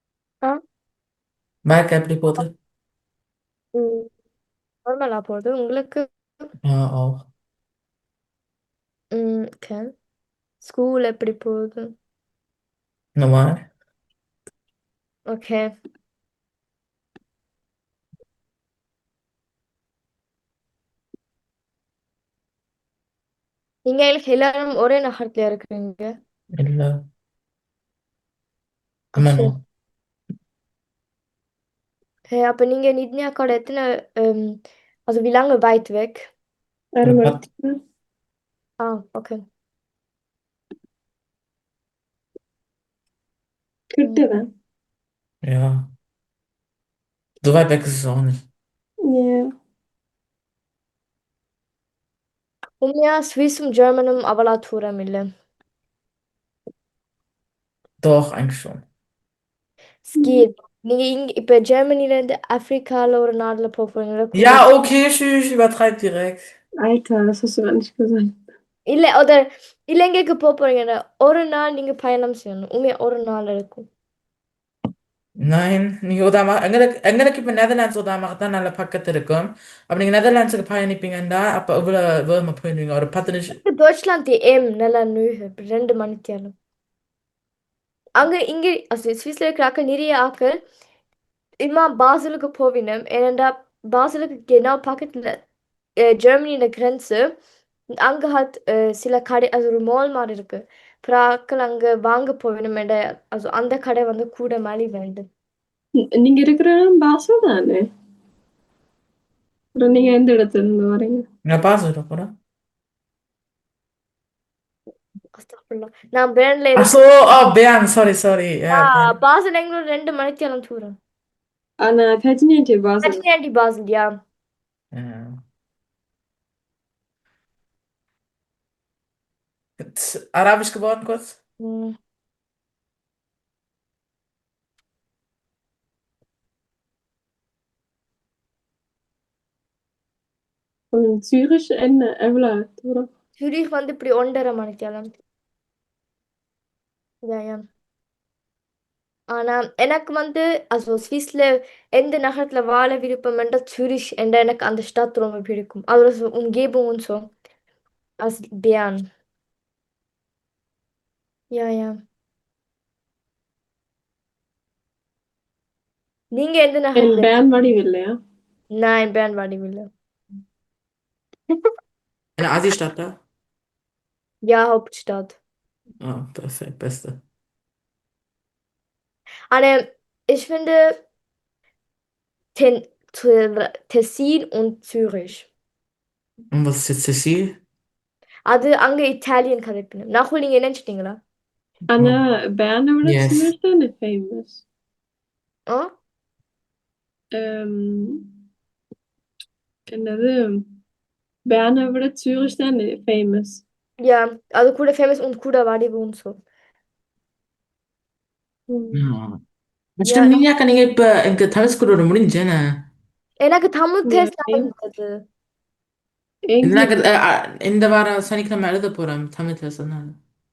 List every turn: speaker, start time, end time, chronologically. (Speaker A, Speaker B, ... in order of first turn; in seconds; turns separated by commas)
Speaker A: 1.6-2.5, Speaker B: 3.7-4.1, Speaker B: 4.9-6.5, Speaker A: 6.6-7.3, Speaker B: 9.1-9.9, Speaker B: 10.6-11.9, Speaker A: 13.2-13.6, Speaker B: 15.3-15.7, Speaker B: 23.9-26.1, Speaker A: 26.6-27.1, Speaker A: 29.2-29.6, Speaker B: 29.2-29.5, Speaker B: 32.3-36.3, Speaker C: 37.0-37.8, Speaker A: 37.0-37.4, Speaker B: 38.8-39.4, Speaker C: 43.9-44.5, Speaker A: 45.4-45.9, Speaker A: 47.4-48.4, Speaker C: 49.1-49.5, Speaker B: 52.8-55.3, Speaker A: 58.0-58.8, Speaker B: 60.1-64.7, Speaker C: 60.2-60.4, Speaker A: 64.3-66.5, Speaker C: 66.8-68.4, Speaker B: 68.9-73.9, Speaker A: 75.4-83.6, Speaker B: 83.5-86.5, Speaker B: 88.2-90.6, Speaker B: 91.6-95.4, Speaker B: 96.1-97.3, Speaker B: 98.0-105.2, Speaker C: 106.0-107.8, Speaker C: 109.8-111.2, Speaker A: 111.5-112.3, Speaker B: 115.4-117.0, Speaker A: 116.8-119.1, Speaker B: 118.7-121.0, Speaker C: 121.8-123.2, Speaker B: 123.0-124.1, Speaker A: 124.9-125.4, Speaker A: 129.8-131.4, Speaker B: 131.6-131.9, Speaker C: 140.9-143.1, Speaker B: 143.4-145.1, Speaker B: 147.2-147.6, Speaker B: 149.3-157.3, Speaker B: 158.2-159.1, Speaker B: 161.5-161.9, Speaker B: 166.3-167.3, Speaker C: 167.0-168.2, Speaker B: 168.7-169.9, Speaker A: 172.4-173.2, Speaker B: 174.4-175.4, Speaker A: 176.0-177.2, Speaker B: 179.5-180.9, Speaker B: 182.6-185.5, Speaker A: 186.5-187.6, Speaker B: 188.5-191.2, Speaker C: 191.9-194.6, Speaker A: 193.0-193.5, Speaker C: 197.3-198.3, Speaker C: 199.9-200.7, Speaker C: 201.5-203.6, Speaker B: 204.0-206.4, Speaker C: 208.7-209.0, Speaker A: 208.9-209.4, Speaker A: 210.0-212.9, Speaker B: 210.0-210.4, Speaker B: 213.4-215.2, Speaker C: 214.1-214.7, Speaker C: 216.5-216.9, Speaker A: 216.6-220.2